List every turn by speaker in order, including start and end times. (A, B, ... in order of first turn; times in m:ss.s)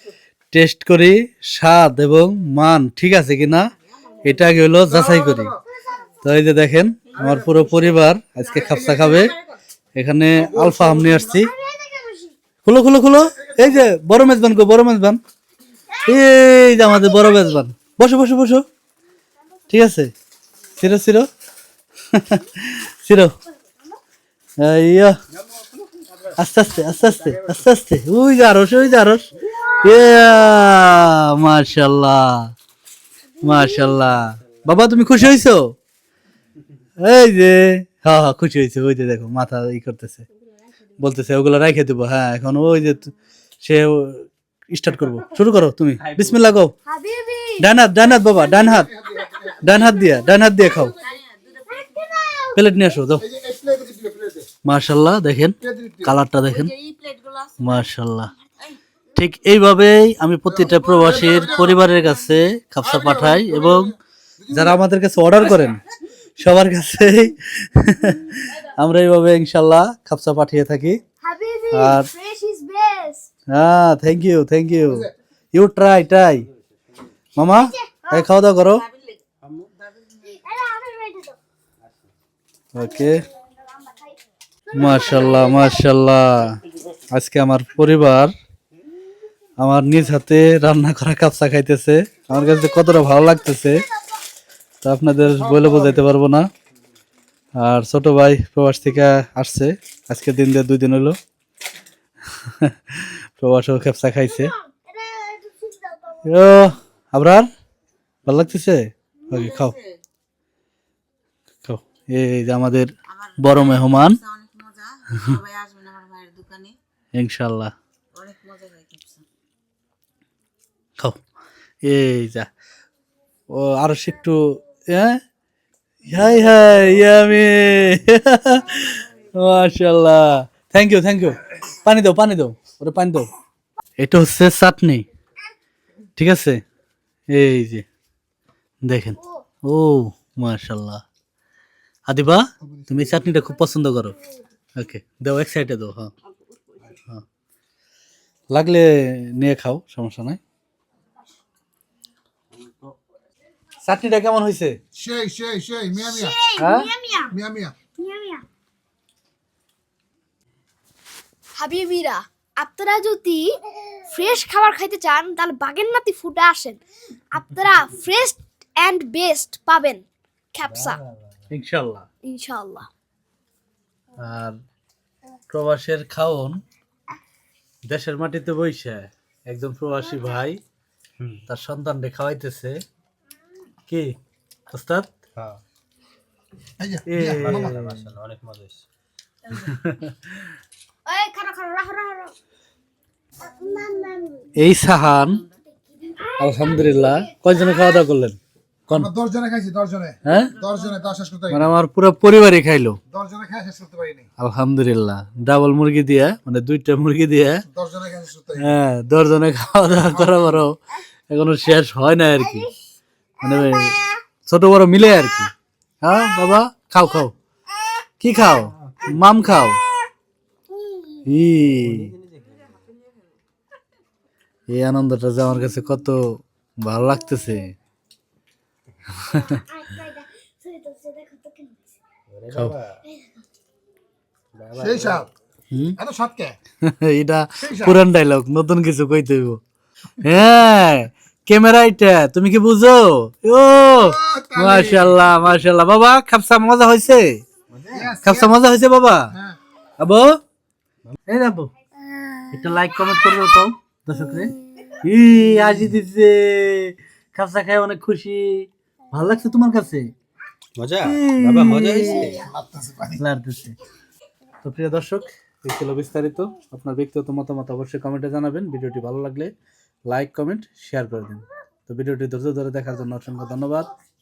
0:00.5-0:03.6 A
0:04.2-0:05.5 A
0:04.9-0:05.4 B
0:06.2-0:09.4 A
0:07.2-0:07.5 B
0:08.6-0:09.3 B
0:10.0-0:11.5 A
0:10.4-0:11.3 B
0:11.4-0:12.3 C
0:12.6-0:15.2 A
0:16.0-0:18.7 A
0:16.8-0:17.4 C
0:19.7-0:20.1 A
0:20.8-0:21.3 A
0:22.1-0:23.3 A
0:24.6-0:25.2 A
0:26.3-0:32.5 A
0:29.4-0:30.3 C
0:33.4-0:35.7 A
0:37.0-0:40.2 A
0:41.0-0:46.7 A
0:46.9-0:47.6 C
0:47.6-0:48.9 A
0:48.7-0:49.3 B
0:49.6-0:51.0 A
0:51.0-0:52.5 D
0:51.8-0:52.5 C
0:52.6-0:53.2 A
0:53.2-0:54.5 B
0:54.6-0:56.7 A
0:55.6-0:56.1 B
0:56.5-0:57.7 D
0:57.6-0:58.3 A
0:59.2-1:03.9 A
1:01.0-1:01.8 D
1:02.9-1:03.9 B
1:04.4-1:04.8 B
1:04.5-1:05.8 A
1:06.4-1:11.0 A
1:11.2-1:13.3 C
1:11.7-1:12.1 A
1:13.5-1:16.4 A
1:17.4-1:18.8 A
1:17.7-1:18.2 C
1:18.8-1:19.2 D
1:20.2-1:21.4 C
1:22.7-1:23.2 A
1:22.8-1:23.3 C
1:24.7-1:25.8 C
1:24.7-1:26.6 A
1:27.1-1:28.3 A
1:29.6-1:33.9 A
1:34.8-1:36.5 A
1:37.6-1:41.2 A
1:42.3-1:44.5 A
1:44.9-1:46.1 C
1:45.0-1:45.8 D
1:46.2-1:47.5 A
1:48.2-1:49.8 A
1:49.3-1:50.0 D
1:51.6-1:54.2 A
1:53.1-1:56.8 D
1:57.1-1:57.7 A
1:58.1-1:59.2 D
2:01.8-2:02.5 A
2:03.5-2:05.2 A
2:06.0-2:13.3 A
2:14.0-2:15.0 A
2:16.2-2:16.6 A
2:17.3-2:17.8 A
2:18.8-2:21.0 A
2:22.1-2:24.2 A
2:24.8-2:26.1 A
2:28.5-2:30.4 A
2:33.8-2:34.8 A
2:34.9-2:36.4 B
2:36.2-2:37.3 C
2:36.6-2:36.9 A
2:37.3-2:37.7 B
2:38.0-2:38.4 C
2:41.6-2:46.8 C
2:47.3-2:51.0 C
2:51.5-2:52.0 A
2:52.2-2:52.9 C
2:54.2-2:54.6 A
2:55.5-2:56.6 A
2:57.9-3:00.6 A
3:01.5-3:02.8 A
3:03.9-3:04.1 A
3:04.7-3:05.1 A
3:06.8-3:07.5 B
3:07.1-3:08.0 A
3:07.4-3:08.8 E
3:09.5-3:10.2 A
3:11.0-3:12.3 C
3:13.4-3:14.5 C
3:14.5-3:15.4 A
3:16.1-3:18.0 C
3:16.4-3:19.1 A
3:18.9-3:21.7 B
3:20.2-3:20.6 A
3:21.5-3:23.0 A
3:23.1-3:24.2 B
3:24.4-3:27.6 A
3:27.7-3:28.7 B
3:28.6-3:30.8 A
3:31.3-3:32.7 A
3:33.4-3:35.5 A
3:36.0-3:37.3 A
3:38.2-3:39.8 A
3:40.8-3:41.2 C
3:41.2-3:42.1 A
3:44.7-3:47.7 A
3:49.2-3:49.6 A
3:49.3-3:51.7 C
3:52.3-3:52.9 E
3:54.6-3:55.0 E
3:54.8-3:55.3 B
3:55.7-3:56.0 A
3:56.0-3:56.6 B
3:56.8-3:59.6 A
3:57.6-3:58.0 B
4:00.2-4:07.4 A
4:04.0-4:05.1 B
4:07.9-4:08.5 B
4:08.2-4:09.3 A
4:10.0-4:10.4 A
4:11.3-4:11.7 A
4:12.5-4:20.1 A
4:20.8-4:22.4 E
4:21.0-4:22.5 A
4:22.4-4:23.2 B
4:23.2-4:23.8 A
4:24.6-4:29.5 A
4:30.1-4:33.9 A